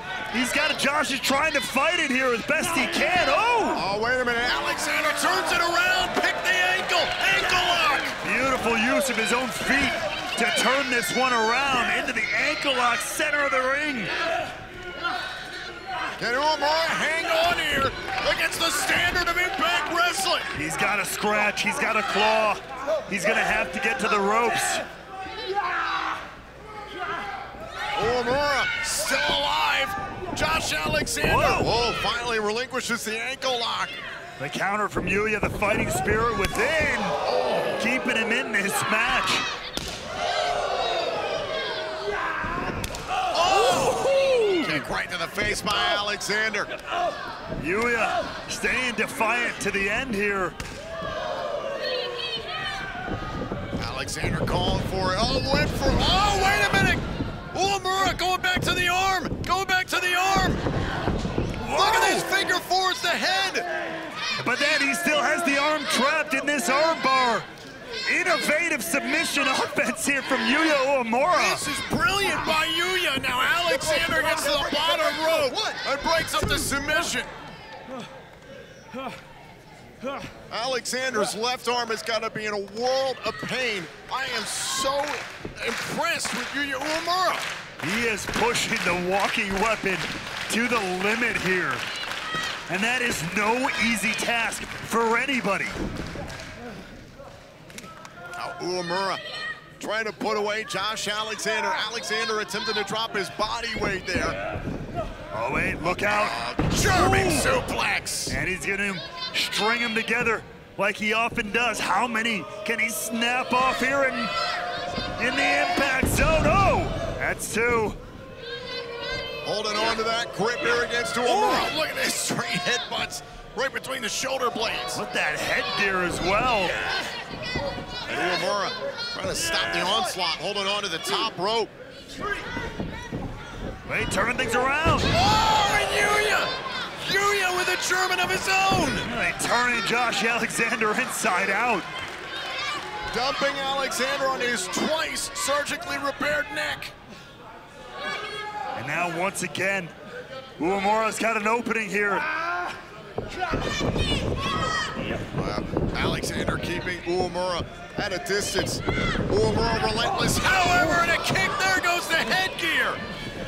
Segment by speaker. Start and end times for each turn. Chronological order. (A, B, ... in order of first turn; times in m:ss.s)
0:00.3-0:03.8 A
0:03.7-0:08.1 B
0:08.2-0:14.1 A
0:16.2-0:20.5 B
0:20.5-0:24.8 A
0:28.0-0:34.0 B
0:31.2-0:31.7 A
0:34.4-0:37.2 A
0:37.3-0:37.8 B
0:37.8-0:39.5 A
0:43.3-0:44.1 B
0:43.6-0:44.8 A
0:44.6-0:46.7 B
0:47.6-0:50.6 A
0:53.8-1:00.6 B
1:01.6-1:02.3 A
1:01.6-1:03.7 B
1:04.4-1:07.5 A
1:08.1-1:11.6 A
1:11.3-1:17.3 B
1:20.5-1:27.5 B
1:27.8-1:31.8 A
1:32.7-1:35.8 A
1:38.4-1:39.2 B
1:39.8-1:44.4 B
1:45.3-1:47.6 A
1:45.8-1:48.4 B
1:48.3-1:54.3 A
1:55.2-1:58.0 A
1:59.4-2:05.0 B
2:04.9-2:06.8 A
2:08.1-2:11.7 B
2:13.9-2:15.1 A
2:15.1-2:19.1 B
2:19.0-2:21.9 A
2:23.1-2:26.9 B
2:28.8-2:29.9 A
2:30.6-2:32.3 A
2:35.3-2:43.0 B